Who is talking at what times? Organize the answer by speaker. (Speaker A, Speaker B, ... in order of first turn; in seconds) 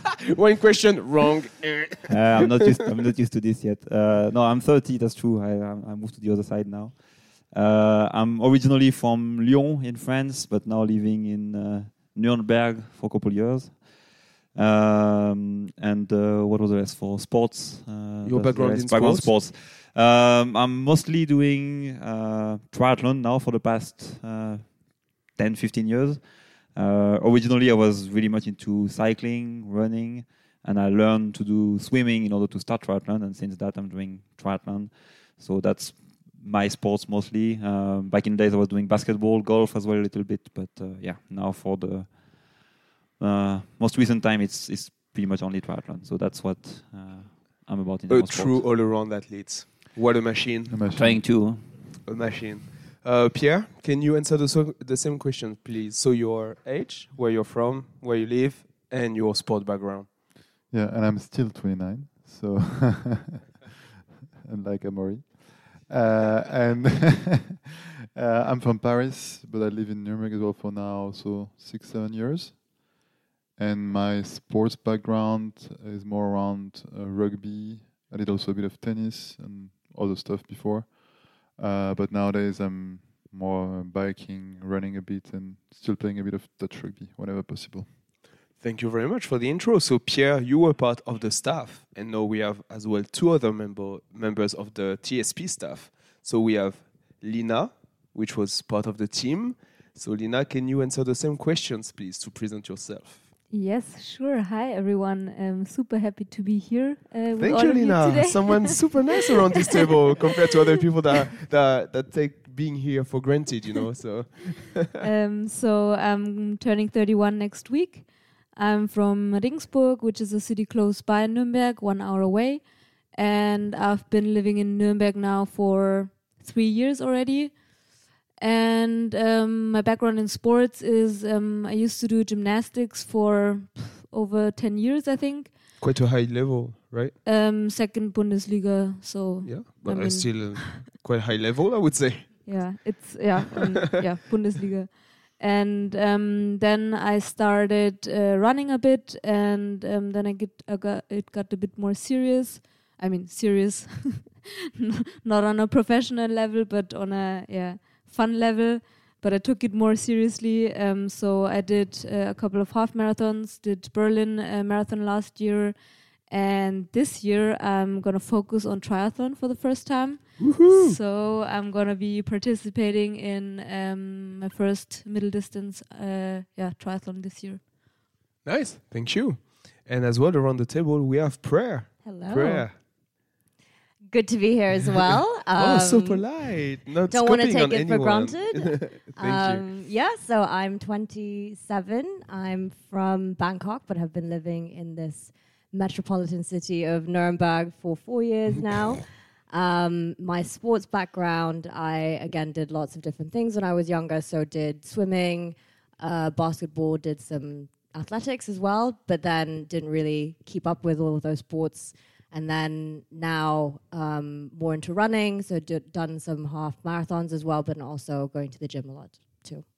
Speaker A: 0.3-2.7, 18.2-19.3, 48.1-50.8, 51.9-60.1, 88.6-103.2, 107.4-115.0, 135.8-137.1, 139.4-142.9, 170.4-171.0, 178.4-182.7, 185.5-189.6
Speaker B: 2.1-48.7, 50.9-51.9
Speaker C: 50.7-51.3, 60.7-63.5, 64.4-67.6, 68.1-72.9, 73.6-87.9
Speaker D: 103.5-109.0, 109.7-110.2, 115.0-127.6, 128.4-135.6, 137.2-140.8, 142.4-177.6
Speaker E: 182.0-182.9, 184.1-219.7